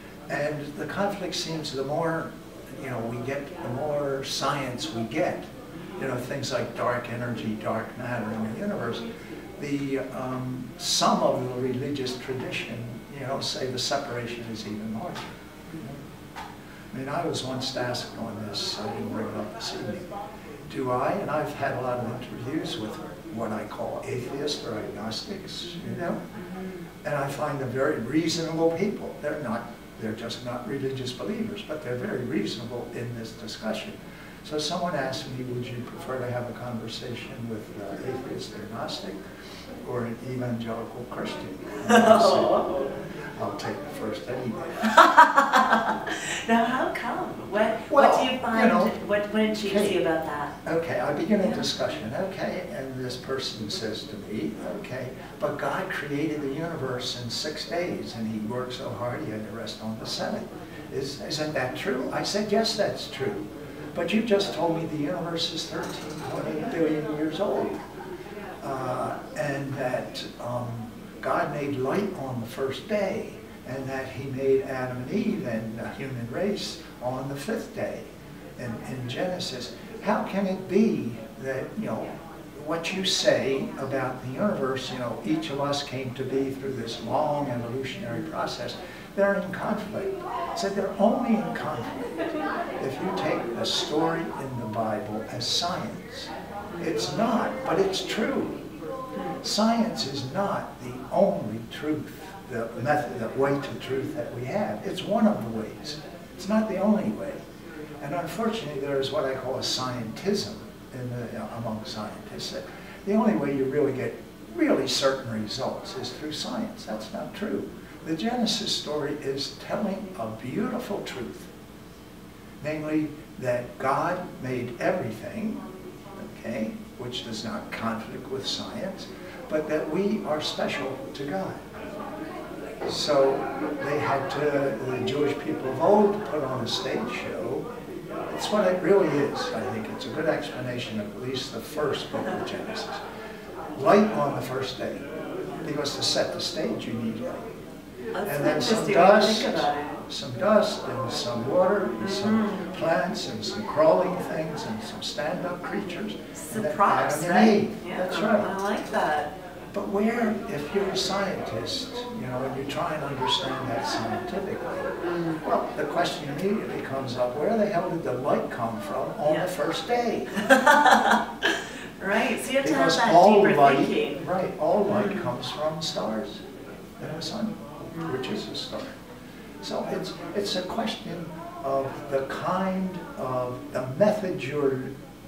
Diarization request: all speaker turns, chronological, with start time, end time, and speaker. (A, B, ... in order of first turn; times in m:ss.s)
0:00.3-0:15.9 A
0:16.9-0:20.1 A
0:20.7-0:26.2 A
0:25.8-0:26.8 B
0:27.0-0:39.2 A
0:39.8-0:42.7 A
0:41.8-0:42.9 B
0:43.4-0:45.0 A
0:44.9-0:50.5 B
0:47.9-0:49.0 A
0:49.6-0:50.0 A
0:50.6-1:07.8 A
1:08.6-1:32.1 A
1:32.8-1:38.6 A
1:39.4-1:47.4 A
1:48.0-2:01.5 A
2:02.6-2:05.6 A
2:06.2-2:11.6 A
2:12.8-2:17.7 A
2:18.3-2:23.0 A
2:23.7-2:25.0 A
2:25.6-2:27.5 A
2:28.2-2:30.0 B
2:28.2-2:38.5 A
2:32.0-2:32.7 B
2:36.4-2:39.3 B
2:39.7-2:44.9 A
2:45.0-2:45.4 B
2:45.4-2:50.3 A
2:50.3-2:54.2 B
2:52.6-2:56.4 A
2:54.9-2:55.3 B
2:57.0-2:59.0 A
2:59.6-3:04.9 A